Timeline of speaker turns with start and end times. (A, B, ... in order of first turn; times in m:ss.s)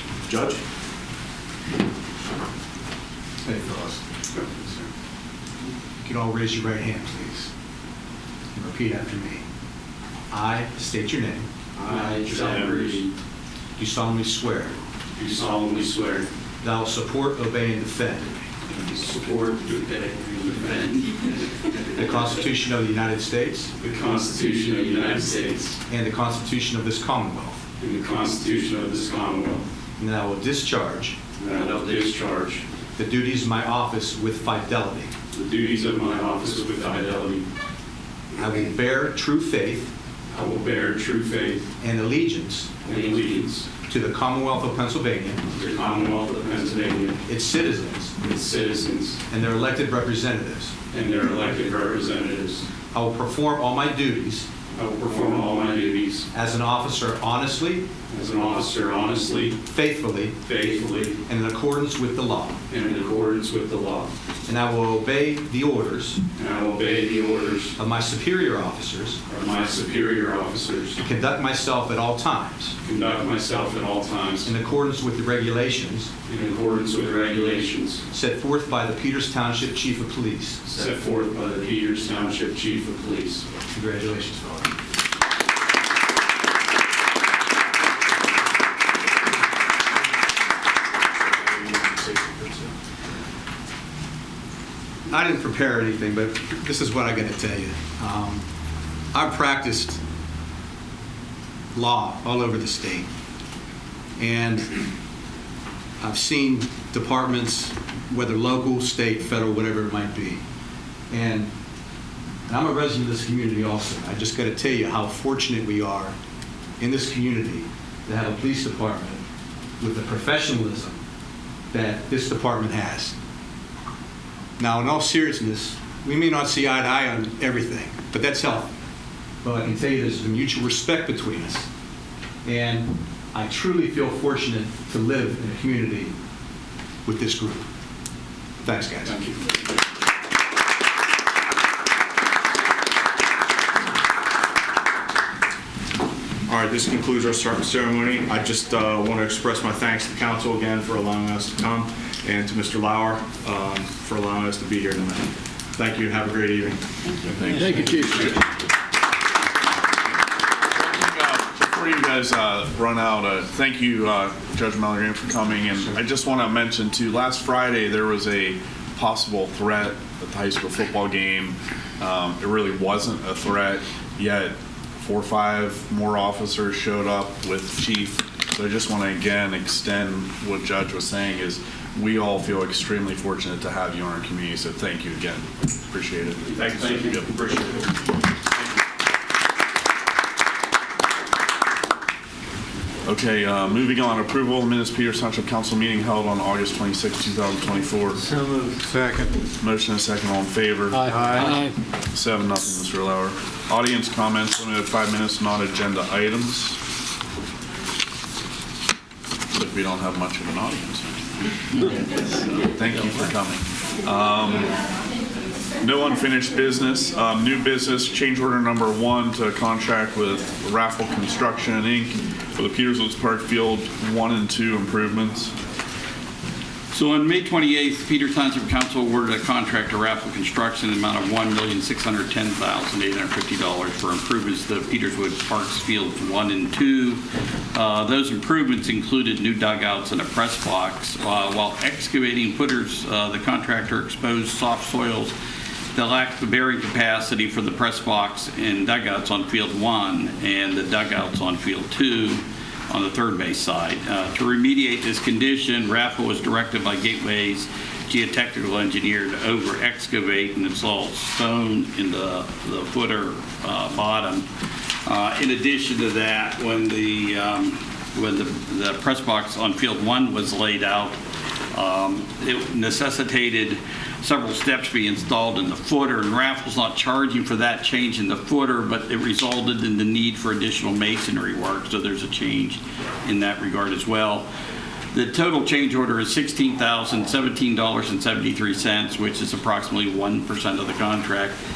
0:00.2-0:00.6 A
0:03.4-0:04.0 B
0:06.0-0:07.5 B
0:08.5-0:09.4 B
0:10.3-0:11.5 B
0:11.8-0:13.1 C
0:11.9-0:12.8 D
0:13.8-0:14.7 B
0:15.2-0:16.3 C
0:16.6-0:18.5 B
0:18.8-0:21.0 C
0:21.9-0:23.7 B
0:23.8-0:25.8 C
0:25.9-0:27.6 B
0:27.8-0:29.6 C
0:30.0-0:31.2 B
0:31.4-0:32.6 C
0:33.0-0:35.1 B
0:35.3-0:37.4 C
0:38.4-0:39.9 B
0:40.3-0:41.6 C
0:41.8-0:42.7 B
0:42.8-0:43.7 C
0:43.8-0:45.5 B
0:45.6-0:47.2 C
0:47.3-0:48.2 B
0:48.2-0:49.2 C
0:49.3-0:50.7 B
0:50.9-0:52.7 C
0:52.9-0:54.5 B
0:54.7-0:56.3 C
0:56.3-0:57.9 B
0:58.1-0:59.6 C
0:59.7-1:00.4 B
1:00.4-1:01.2 C
1:01.2-1:02.6 B
1:02.7-1:04.1 C
1:04.4-1:06.2 B
1:06.4-1:07.8 C
1:07.8-1:09.2 B
1:09.3-1:11.0 C
1:11.0-1:12.8 B
1:12.9-1:14.5 C
1:14.4-1:16.1 B
1:16.3-1:18.0 C
1:18.1-1:20.6 B
1:20.6-1:23.4 C
1:23.7-1:24.7 B
1:32.2-1:32.4 A
1:35.1-1:38.4 B
1:39.1-1:40.0 B
1:41.7-1:43.1 B
1:44.2-1:44.8 B
1:46.0-1:50.4 B
1:51.1-1:51.5 B
1:52.5-1:56.1 B
1:56.8-1:59.2 B
1:59.8-2:01.0 B
2:01.7-2:03.1 B
2:04.6-2:08.7 B
2:09.4-2:11.7 B
2:12.4-2:16.2 B
2:17.0-2:17.6 B
2:18.6-2:19.2 B
2:19.1-2:19.4 C
2:26.5-2:36.8 A
2:37.2-2:38.4 E
2:37.6-2:38.2 F
2:40.7-3:07.3 E
3:06.6-3:07.9 A
3:13.0-3:18.3 E
3:18.3-3:19.2 F
3:18.9-3:19.2 B
3:19.6-3:21.6 E
3:21.1-3:21.7 F
3:21.2-3:21.5 B
3:22.1-3:26.8 E
3:29.5-3:31.2 E
3:32.6-3:34.7 E
3:35.8-3:45.5 E
3:46.9-3:57.2 D
3:57.7-4:05.3 D
4:05.9-4:24.4 D
4:25.0-4:31.2 D
4:31.7-4:44.5 D
4:45.1-4:51.6 D